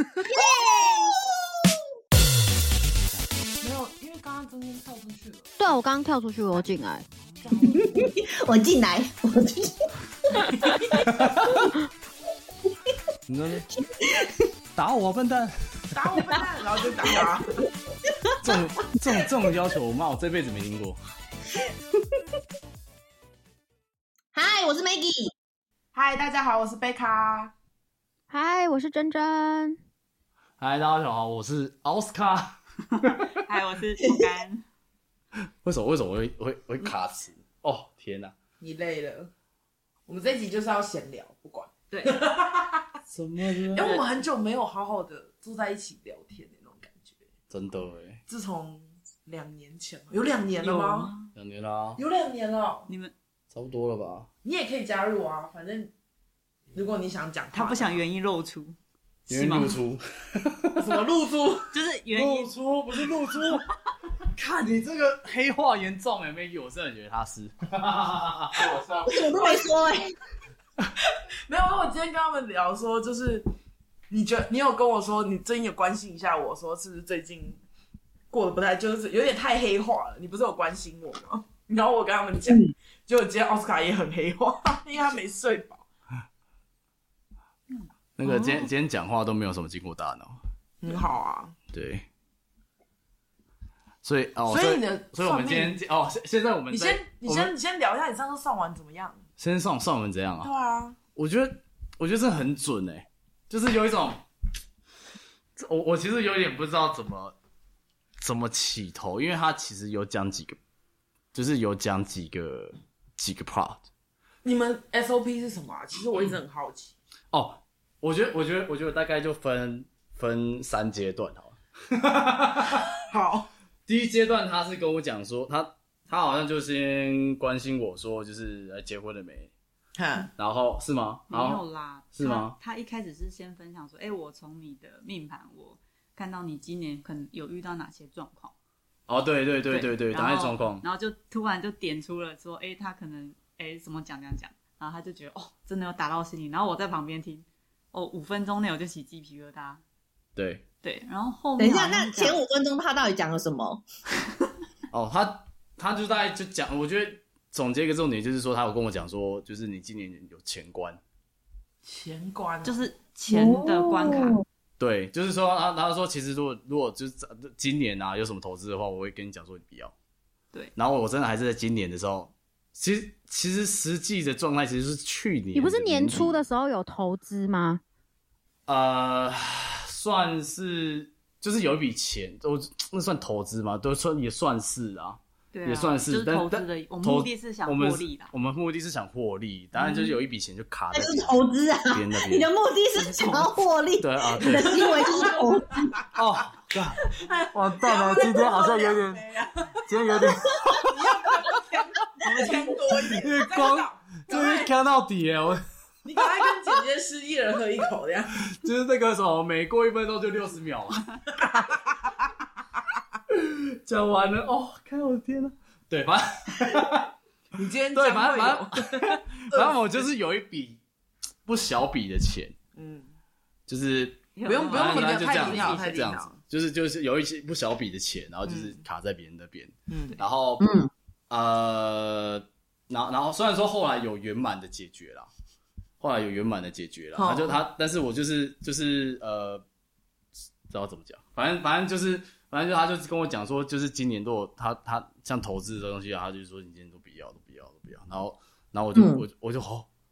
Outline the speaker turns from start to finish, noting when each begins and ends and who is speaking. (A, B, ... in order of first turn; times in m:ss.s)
0:00.3-0:01.8 A
0:00.3-0:00.9 B
0:03.6-0:05.5 C
0:05.6-0:07.0 B
0:07.4-0:08.1 C
0:07.8-0:09.9 A
0:11.1-0:11.7 D
0:13.3-0:13.7 D
0:14.0-0:14.3 A
0:14.8-0:15.5 D
0:15.9-0:17.5 C
0:18.4-0:21.0 D
0:24.3-0:25.3 A
0:25.9-0:27.5 C
0:28.3-0:29.8 B
0:30.6-0:33.2 D
0:33.4-0:34.6 E
0:35.6-0:38.3 D
0:38.6-0:39.3 C
0:40.1-0:43.0 C
0:41.9-0:42.2 E
0:43.1-0:43.9 D
0:43.6-0:47.2 C
0:43.8-0:44.0 E
0:47.5-0:48.2 D
0:48.3-0:51.1 C
0:50.6-0:51.3 E
0:51.3-0:52.0 D
0:52.0-0:52.9 C
0:52.9-0:53.1 E
0:53.5-0:54.3 D
0:54.4-0:55.9 C
0:56.7-0:58.0 C
0:57.5-0:58.8 E
0:59.3-0:59.8 E
0:59.3-1:01.0 D
1:00.8-1:01.8 C
1:01.7-1:02.5 E
1:02.1-1:03.6 D
1:03.3-1:03.6 C
1:04.3-1:09.6 D
1:09.0-1:10.1 A
1:11.5-1:13.4 C
1:14.1-1:17.6 C
1:18.3-1:25.8 C
1:22.5-1:22.7 A
1:27.7-1:28.7 E
1:28.2-1:30.4 D
1:30.8-1:31.6 C
1:31.7-1:32.0 D
1:34.0-1:37.5 D
1:34.5-1:35.8 C
1:36.7-1:39.2 C
1:39.4-1:40.5 D
1:40.4-1:41.0 C
1:41.2-1:44.2 D
1:45.6-1:47.4 D
1:48.2-1:50.6 D
1:51.3-1:53.8 D
1:54.4-1:56.9 C
1:57.3-2:02.8 D
2:02.8-2:03.5 C
2:03.9-2:09.5 D
2:10.0-2:10.3 C
2:10.4-2:12.6 D
2:11.3-2:18.5 E
2:19.1-2:20.8 D
2:19.7-2:29.8 E
2:30.4-2:30.6 D
2:30.8-2:32.4 E
2:31.6-2:33.8 A
2:34.9-2:41.0 D
2:41.8-2:42.9 C
2:42.6-2:44.4 E
2:43.3-2:44.4 A
2:44.8-2:49.9 D
2:50.8-2:56.4 D
2:55.5-2:57.8 B
2:58.7-3:12.5 D
3:05.5-3:08.3 E
3:09.8-3:10.1 E
3:10.9-3:15.9 A
3:12.9-3:13.6 E
3:14.0-3:15.2 D
3:14.7-3:16.0 C
3:16.1-3:19.2 D
3:17.0-3:24.7 C
3:19.9-3:20.9 D
3:23.1-3:25.6 D
3:26.0-3:28.4 C
3:26.2-3:26.4 D
3:28.4-3:31.9 D
3:33.3-3:37.1 D
3:37.6-3:39.7 C
3:37.9-3:40.8 D
3:41.4-3:42.6 D
3:42.7-3:43.1 C
3:43.7-3:50.7 D
3:44.4-3:46.0 E
3:44.4-3:46.4 C
3:48.4-3:48.8 C
3:49.9-3:50.2 C
3:50.6-3:50.9 A
3:51.3-3:55.3 D
3:56.0-3:59.6 D
3:57.1-3:57.6 C
4:00.7-4:09.9 D
4:08.9-4:09.2 A